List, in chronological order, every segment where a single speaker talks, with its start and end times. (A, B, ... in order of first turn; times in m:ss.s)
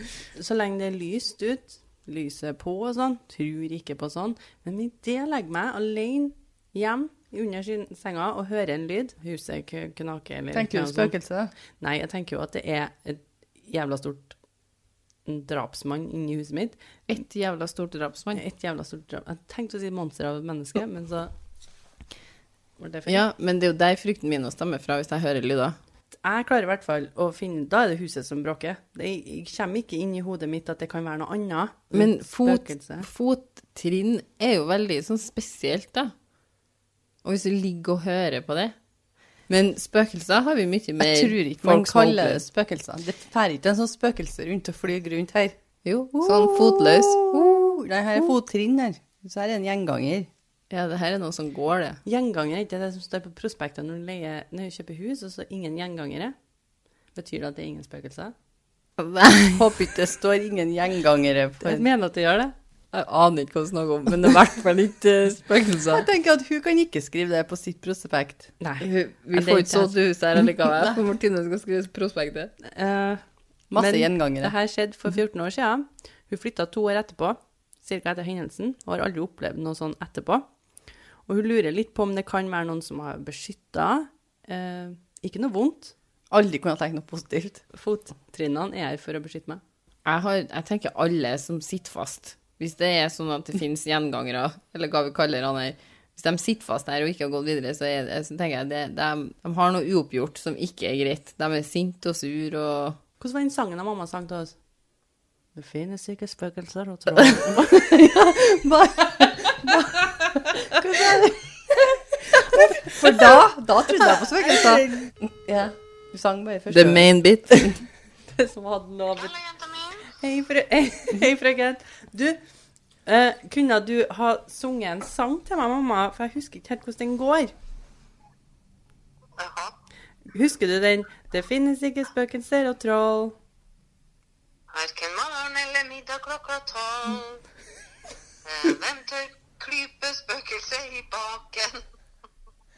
0:00.4-0:11.2 A
0:10.5-0:11.5 B
0:11.8-0:14.4 A
0:15.3-0:16.8 A
0:17.1-0:18.4 C
0:18.3-0:21.3 A
0:22.8-0:23.3 A
0:23.1-0:25.8 C
0:26.2-0:33.1 A
0:31.9-0:36.1 C
0:37.2-0:38.8 C
0:39.5-0:42.4 C
0:41.0-0:45.6 B
0:45.8-0:47.7 C
0:46.2-0:50.3 B
0:50.7-0:52.0 C
0:52.1-0:56.4 A
0:57.2-0:58.3 A
0:59.0-0:59.7 C
0:59.5-1:01.8 B
1:01.6-1:02.5 A
1:02.9-1:06.1 C
1:05.9-1:08.5 B
1:08.6-1:09.9 A
1:08.8-1:12.5 C
1:10.6-1:11.0 B
1:12.6-1:13.2 A
1:13.7-1:14.5 B
1:13.8-1:20.4 A
1:21.3-1:25.9 A
1:26.3-1:27.6 B
1:27.7-1:29.6 A
1:30.0-1:43.0 C
1:43.2-1:44.6 A
1:45.6-1:47.8 A
1:47.6-1:57.1 B
1:54.0-1:55.0 A
1:56.7-1:57.8 C
1:58.3-2:02.4 A
2:03.1-2:07.5 A
2:09.4-2:09.7 D
2:10.3-2:13.4 A
2:14.7-2:17.4 D
2:18.5-2:21.8 D